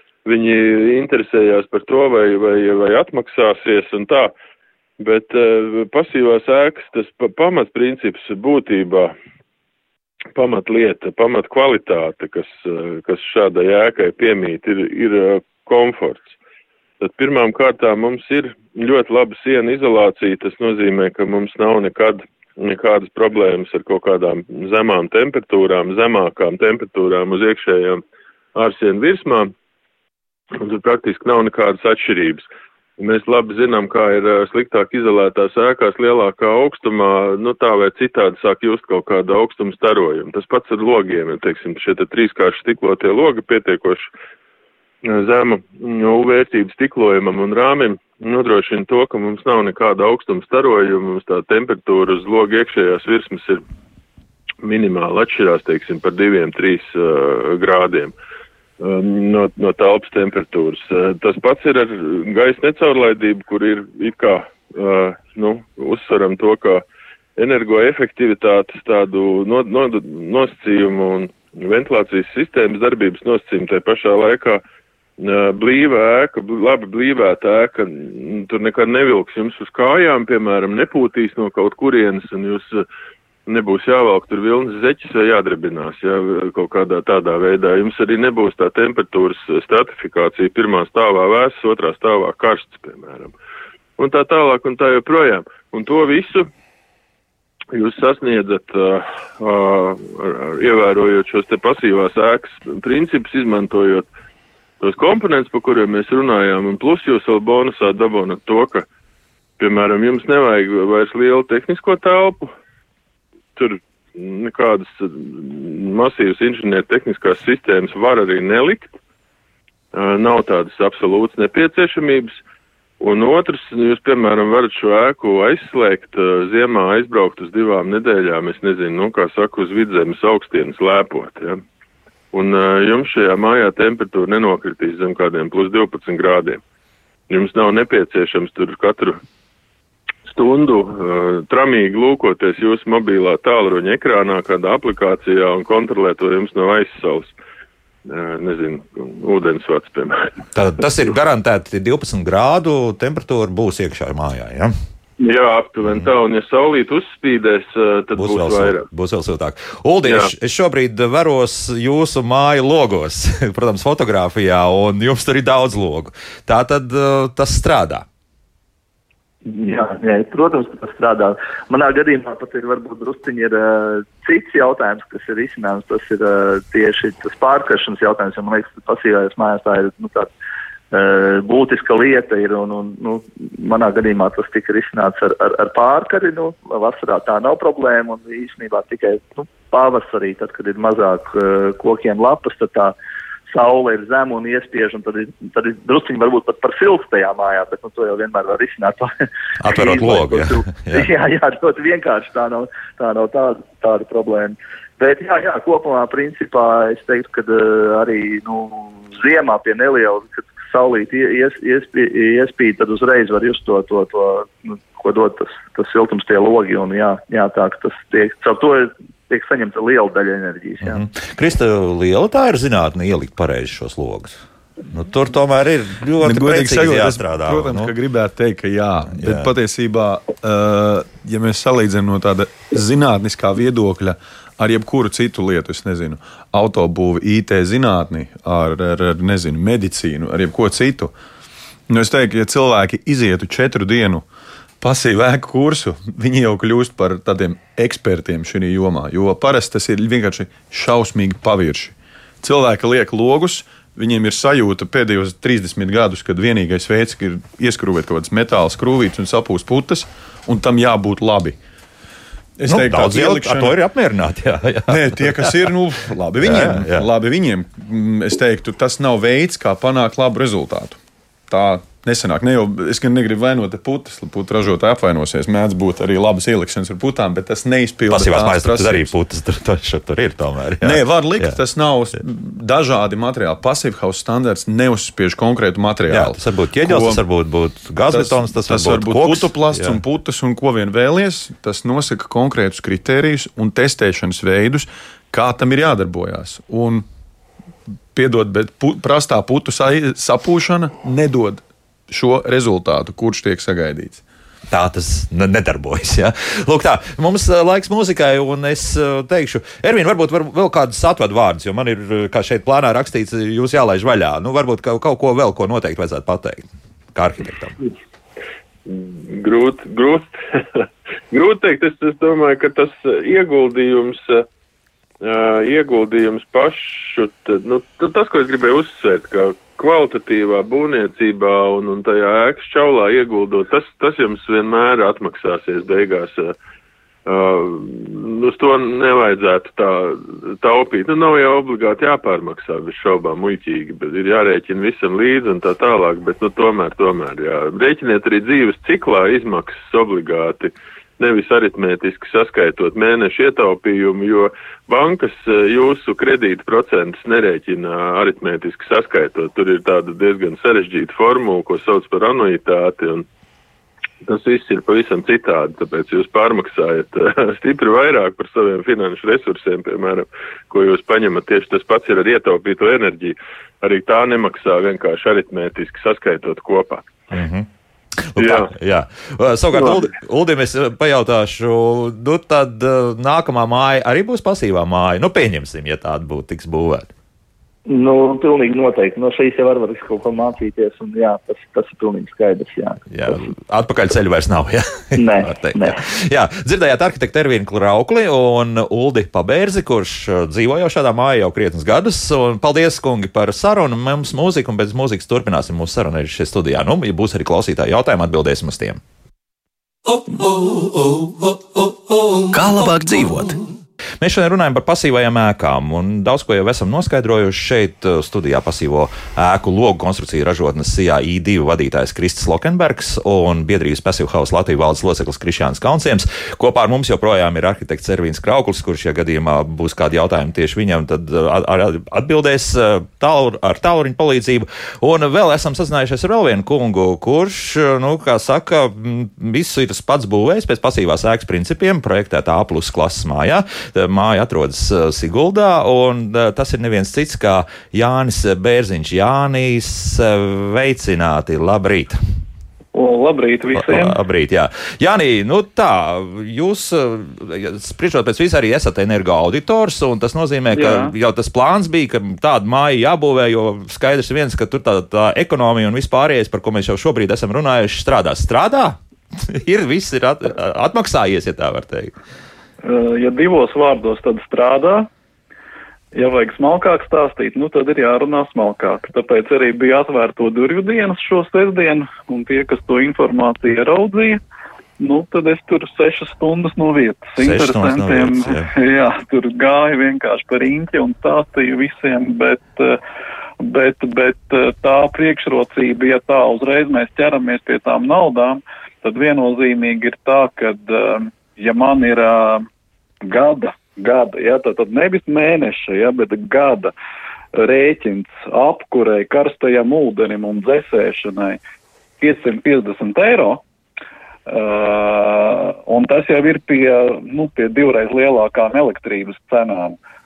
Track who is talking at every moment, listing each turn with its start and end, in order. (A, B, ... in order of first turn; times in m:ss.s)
0:00.2-0:04.3 A
0:05.0-0:09.1 A
0:10.4-0:16.4 A
0:17.0-0:28.0 A
0:28.6-0:29.5 A
0:30.5-0:44.1 A
0:45.0-0:53.6 A
0:54.6-0:58.1 A
0:58.8-1:06.8 A
1:07.4-1:14.6 A
1:15.2-1:22.9 A
1:23.5-1:33.3 A
1:34.0-1:36.5 A
1:37.7-1:44.1 A
1:44.8-1:48.9 A
1:49.6-1:52.5 A
1:53.6-1:58.9 A
1:59.9-2:02.4 A
2:03.0-2:11.6 A
2:12.3-2:16.6 A
2:17.3-2:19.2 A
2:20.3-2:27.3 A
2:28.1-2:30.3 A
2:30.5-2:34.7 B
2:35.2-2:38.9 A
2:35.8-2:36.1 B
2:38.2-2:48.0 B
2:40.0-2:40.3 A
2:49.5-3:00.3 C
3:00.9-3:13.0 C
3:13.5-3:41.0 C
3:19.6-3:21.1 B
3:40.8-3:47.9 B
3:46.2-4:01.1 D
3:49.1-3:49.5 B
4:01.9-4:04.2 D
4:04.8-4:21.6 D
4:22.6-4:23.8 D
4:22.7-4:25.7 B
4:24.9-4:31.0 D
4:26.4-4:27.1 B
4:31.5-4:39.1 D
4:38.1-4:41.6 B
4:40.8-4:47.2 D
4:46.1-4:50.0 B
4:48.1-4:57.0 D
4:58.1-5:04.2 D
5:04.7-5:17.8 B
5:18.9-5:24.5 A
5:25.2-5:36.6 A
5:37.3-6:03.3 A
6:04.2-6:17.1 A
6:17.3-6:17.7 B
6:18.2-6:27.1 B
6:18.4-6:18.7 A
6:19.7-6:20.1 A
6:27.9-6:33.4 C
6:33.1-6:49.0 B
6:35.2-6:36.0 C
6:52.5-6:53.5 B
6:54.2-7:32.2 B
7:32.9-7:34.2 E
7:33.7-7:52.2 B
7:40.7-7:41.1 E
7:52.8-7:55.1 E
7:56.1-8:04.4 E
8:05.0-8:13.0 E
8:07.4-8:08.7 B
8:13.6-8:22.7 E
8:23.3-8:26.9 E
8:27.5-8:31.6 E
8:32.2-8:33.6 E
8:34.5-8:40.0 E